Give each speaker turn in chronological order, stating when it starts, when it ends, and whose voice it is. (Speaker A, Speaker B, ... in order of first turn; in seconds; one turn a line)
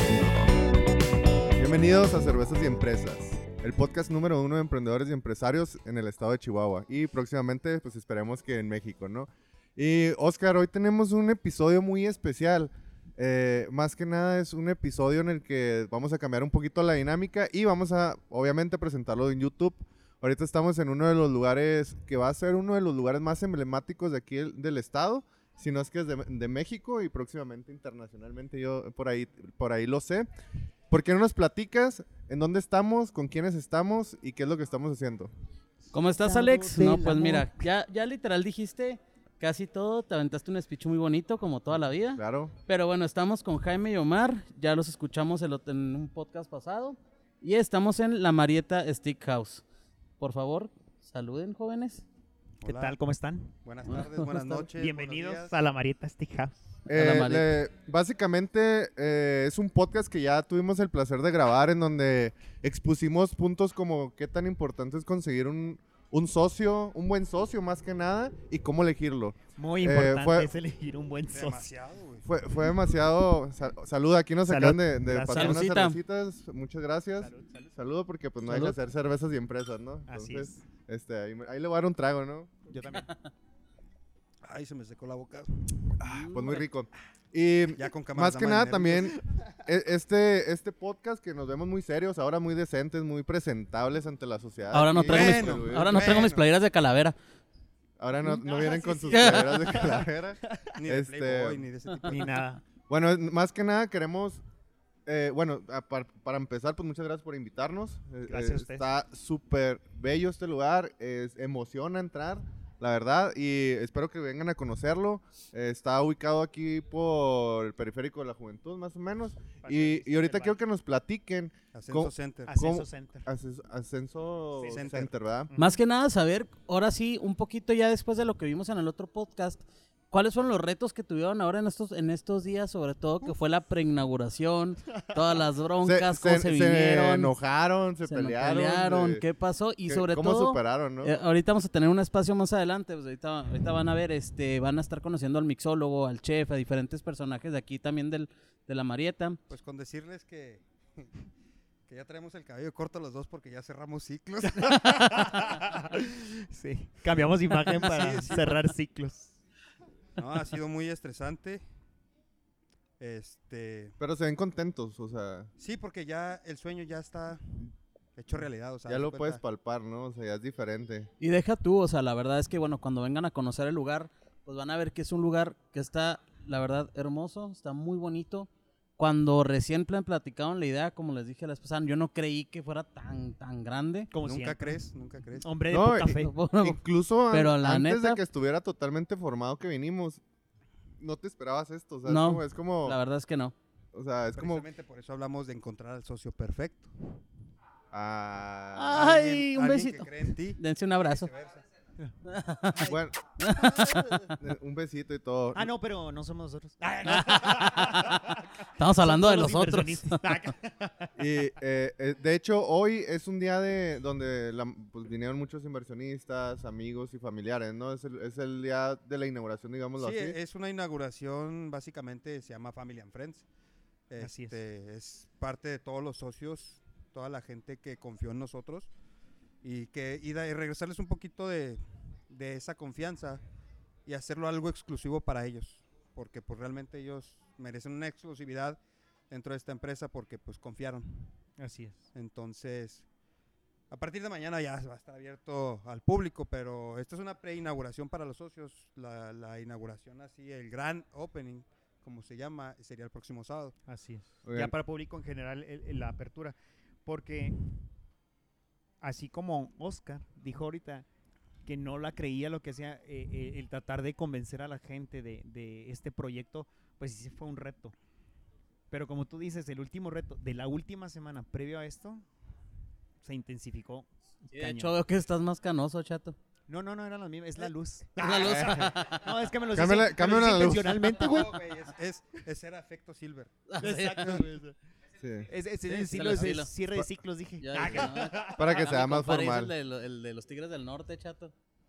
Speaker A: 1.5-30.3
Speaker A: 30.9-35.3
Speaker B: 35.9-37.6
Speaker C: 35.9-49.6
Speaker A: 42.1-42.5
Speaker C: 50.2-52.0
Speaker D: 52.6-53.0
Speaker B: 52.6-53.5
Speaker D: 53.6-55.5
Speaker C: 53.9-54.6
Speaker B: 54.8-56.7
Speaker A: 56.9-70.5
Speaker C: 56.9-57.5
Speaker B: 69.6-71.7
Speaker D: 71.3-72.2
Speaker A: 72.2-82.5
Speaker B: 74.5-75.6
Speaker C: 75.3-76.0
Speaker B: 77.2-77.7
Speaker C: 78.5-78.8
Speaker B: 80.1-80.6
Speaker B: 82.7-83.1
Speaker D: 84.4-86.0
Speaker A: 86.0-96.1
Speaker C: 86.1-86.7
Speaker D: 87.7-89.1
Speaker C: 94.7-97.1
Speaker D: 95.0-96.4
Speaker A: 98.0-101.6
Speaker B: 98.5-100.8
Speaker C: 99.1-99.6
Speaker D: 100.8-102.3
Speaker B: 102.0-102.6
Speaker A: 102.9-104.4
Speaker A: 105.0-125.5
Speaker B: 108.3-108.8
Speaker B: 119.6-120.6
Speaker D: 121.7-122.5
Speaker B: 122.5-123.2
Speaker B: 124.5-124.8
Speaker D: 124.7-125.1
Speaker B: 125.5-125.8
Speaker C: 125.6-137.3
Speaker A: 135.8-139.2
Speaker C: 138.1-149.4
Speaker A: 139.9-141.1
Speaker D: 149.5-151.1
Speaker D: 151.9-155.3
Speaker B: 154.6-159.3
Speaker D: 157.7-158.6
Speaker D: 160.2-161.6
Speaker D: 163.0-163.9
Speaker A: 164.0-165.5
Speaker D: 165.6-169.4
Speaker A: 168.9-171.1
Speaker C: 171.2-184.1
Speaker B: 184.1-184.8
Speaker D: 184.2-185.5
Speaker B: 185.4-186.3
Speaker A: 185.7-190.2
Speaker C: 186.2-188.2
Speaker A: 191.0-193.0
Speaker C: 192.1-193.5
Speaker A: 193.9-194.7
Speaker D: 194.3-196.9
Speaker A: 197.9-199.1
Speaker C: 198.8-201.3
Speaker D: 198.9-201.6
Speaker C: 202.2-204.3
Speaker A: 202.8-203.2
Speaker B: 203.5-204.2
Speaker A: 204.4-205.7
Speaker B: 205.5-208.4
Speaker C: 207.1-210.2
Speaker B: 209.0-211.1
Speaker A: 211.2-220.4
Speaker D: 220.0-223.4
Speaker D: 224.1-228.9
Speaker B: 224.2-224.6
Speaker D: 229.6-233.4
Speaker D: 234.1-238.8
Speaker D: 239.3-241.3
Speaker B: 241.6-242.1
Speaker D: 242.1-243.0
Speaker D: 243.9-253.8
Speaker B: 253.9-256.5
Speaker A: 254.4-254.7
Speaker B: 257.1-257.6
Speaker B: 259.0-261.1
Speaker B: 261.6-267.9
Speaker B: 268.9-272.2
Speaker B: 273.2-274.9
Speaker C: 274.5-276.4
Speaker B: 276.7-281.6
Speaker C: 278.2-279.3
Speaker A: 278.4-278.8
Speaker A: 279.7-281.0
Speaker D: 281.0-283.5
Speaker C: 283.7-284.4
Speaker B: 283.8-284.8
Speaker A: 285.2-285.5
Speaker B: 285.5-288.6
Speaker C: 285.9-286.7
Speaker C: 287.6-291.5
Speaker A: 288.5-289.7